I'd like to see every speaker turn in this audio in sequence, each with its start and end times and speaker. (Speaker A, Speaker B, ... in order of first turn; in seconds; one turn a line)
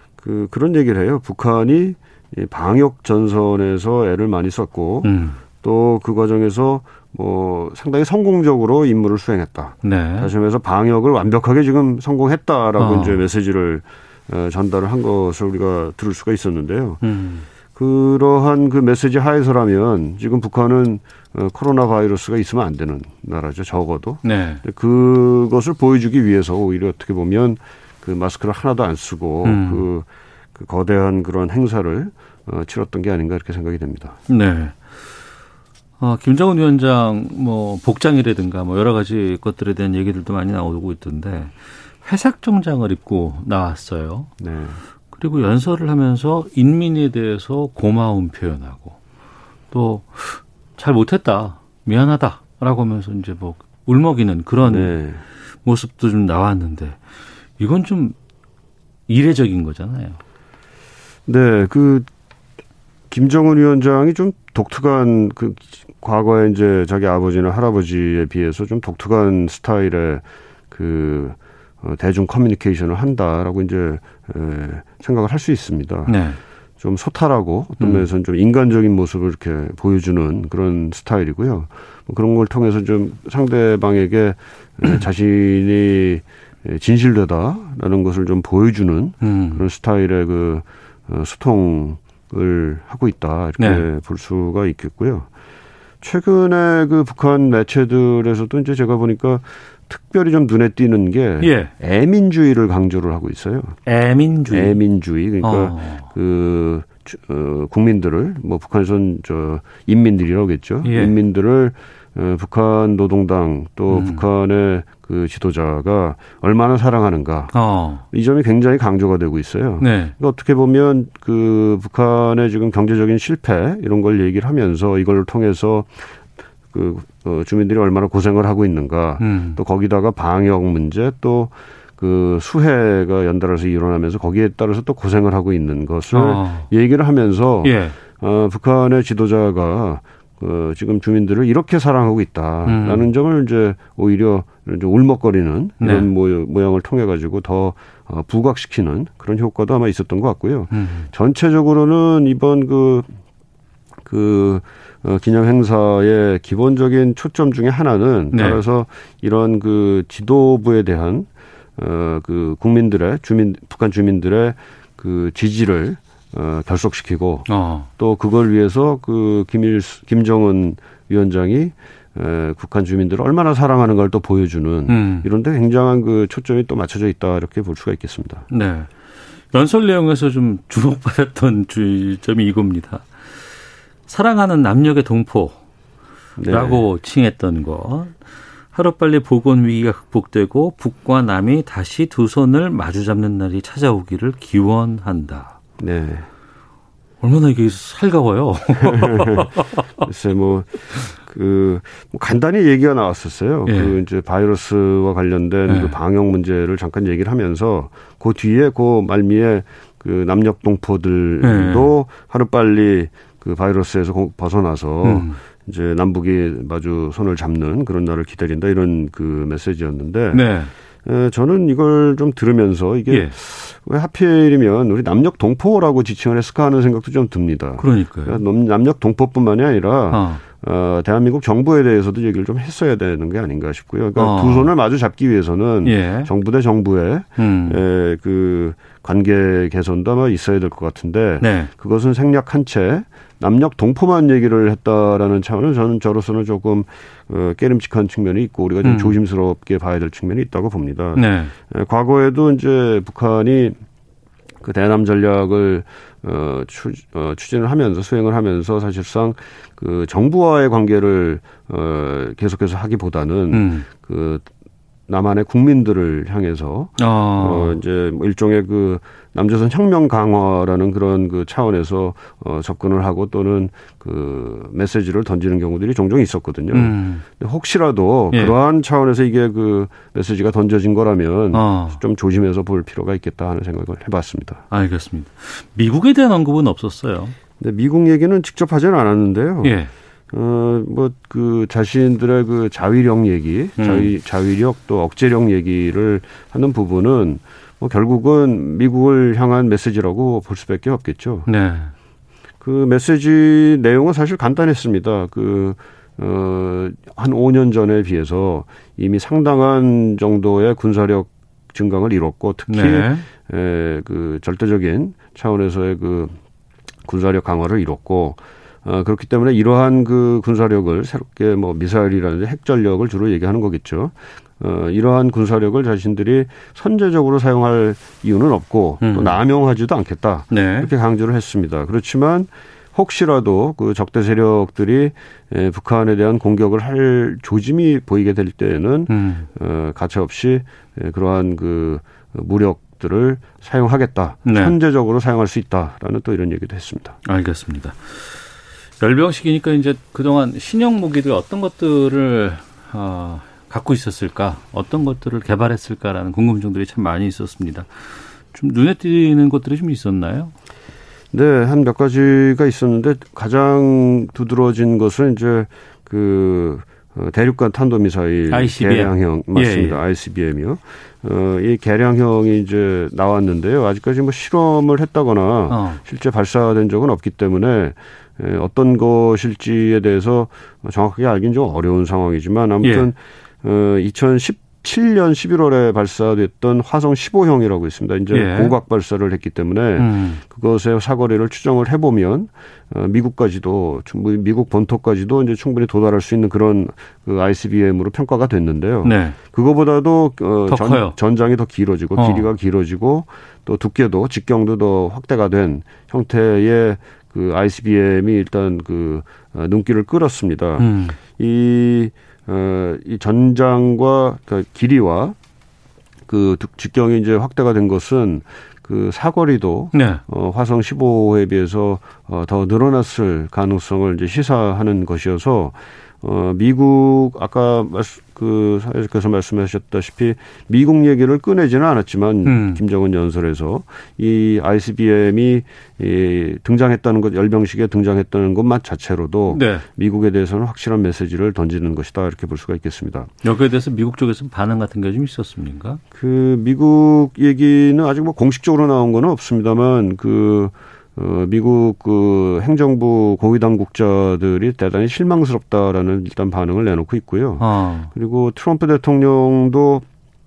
Speaker A: 0.2-17.0
Speaker B: 5.0-5.4
Speaker B: 9.8-10.3
Speaker B: 12.8-13.2
Speaker B: 17.0-17.5
Speaker A: 17.7-34.2
Speaker B: 24.2-24.6
Speaker B: 29.4-29.9
Speaker B: 34.3-34.8
Speaker B: 36.0-44.3
Speaker A: 44.4-44.8
Speaker B: 45.1-49.0
Speaker B: 49.7-55.0
Speaker A: 54.6-55.2
Speaker B: 55.6-57.0
Speaker B: 57.6-58.2
Speaker B: 59.1-60.2
Speaker A: 61.3-62.1
Speaker A: 63.1-76.2
Speaker B: 76.1-76.4
Speaker A: 76.8-95.3
Speaker B: 77.8-78.1
Speaker B: 89.2-89.7
Speaker B: 93.6-93.9
Speaker A: 96.0-103.8
Speaker B: 101.4-101.7
Speaker B: 103.9-104.8
Speaker A: 104.5-126.2
Speaker B: 105.4-106.1
Speaker B: 110.8-111.2
Speaker B: 113.9-114.2
Speaker B: 117.5-118.0
Speaker B: 119.8-120.1
Speaker A: 126.7-153.1
Speaker B: 129.2-129.6
Speaker B: 136.1-136.7
Speaker B: 137.6-138.0
Speaker B: 142.7-143.1
Speaker B: 145.8-146.1
Speaker B: 150.7-151.1
Speaker A: 154.1-178.5
Speaker B: 158.3-158.6
Speaker B: 167.5-167.9
Speaker B: 174.9-175.3
Speaker B: 178.5-178.9
Speaker B: 179.5-183.1
Speaker B: 184.1-185.6
Speaker A: 186.4-186.8
Speaker B: 186.5-188.2
Speaker B: 188.7-195.6
Speaker A: 195.8-196.3
Speaker B: 197.2-200.1
Speaker A: 198.8-220.5
Speaker B: 203.7-204.0
Speaker B: 205.7-206.0
Speaker B: 211.4-211.9
Speaker B: 215.0-215.4
Speaker B: 220.3-220.7
Speaker A: 221.0-253.8
Speaker B: 227.8-228.4
Speaker B: 230.1-230.4
Speaker B: 234.2-234.7
Speaker B: 235.8-236.3
Speaker B: 237.4-237.8
Speaker B: 241.4-241.7
Speaker B: 248.8-249.2
Speaker B: 251.2-251.5
Speaker A: 254.6-264.5
Speaker B: 263.5-263.9
Speaker A: 265.1-284.6
Speaker B: 267.0-267.8
Speaker B: 276.7-277.2
Speaker B: 281.5-282.0
Speaker B: 284.7-287.4
Speaker A: 287.6-289.8
Speaker B: 289.6-289.9
Speaker A: 290.3-301.5
Speaker B: 293.8-294.1
Speaker B: 301.5-301.9
Speaker A: 302.6-316.4
Speaker B: 312.7-313.3
Speaker A: 317.1-347.2
Speaker B: 329.0-329.4
Speaker B: 330.5-330.9
Speaker B: 339.1-339.5
Speaker B: 344.4-344.8
Speaker B: 347.2-348.4
Speaker B: 349.0-357.9
Speaker B: 358.5-360.5
Speaker A: 361.3-415.4
Speaker B: 368.5-370.0
Speaker B: 375.7-376.0
Speaker B: 382.8-383.1
Speaker B: 388.3-388.8
Speaker B: 390.0-390.4
Speaker B: 399.0-399.4
Speaker B: 400.7-401.2
Speaker B: 402.2-402.5
Speaker B: 410.8-411.2
Speaker A: 416.3-443.3
Speaker B: 419.9-420.2
Speaker B: 432.4-432.8
Speaker B: 439.5-439.9
Speaker B: 443.4-446.0
Speaker A: 446.1-460.1
Speaker B: 457.6-458.1